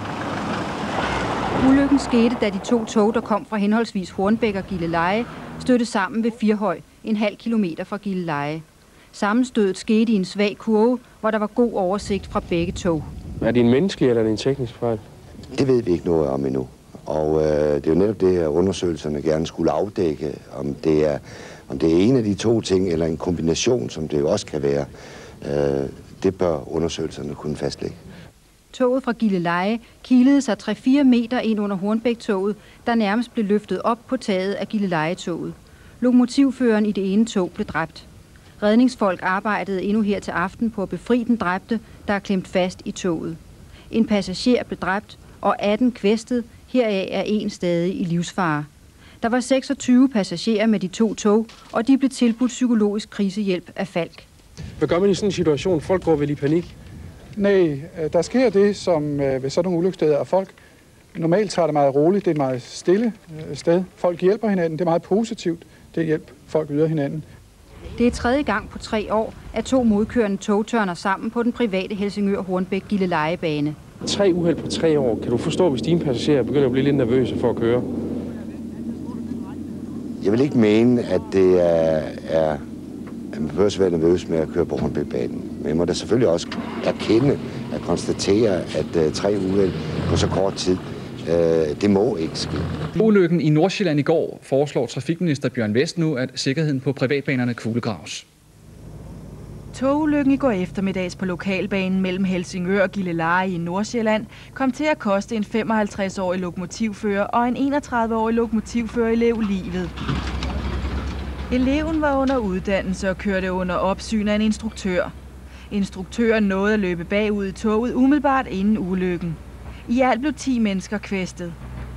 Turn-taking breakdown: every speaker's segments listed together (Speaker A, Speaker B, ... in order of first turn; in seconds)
Speaker A: 1.6-13.1, 28.7-38.1, 38.6-43.4, 43.9-48.7, 49.2-54.3, 68.0-73.8
Speaker B: 13.4-15.0, 54.8-56.7, 74.0-77.8
Speaker C: 15.5-24.9, 25.4-27.9, 80.2-82.6, 83.3-92.7
Speaker D: 57.4-60.5, 61.1-67.2
Speaker E: 93.0-98.2
Speaker F: 99.7-109.9, 111.5-115.1, 115.7-121.6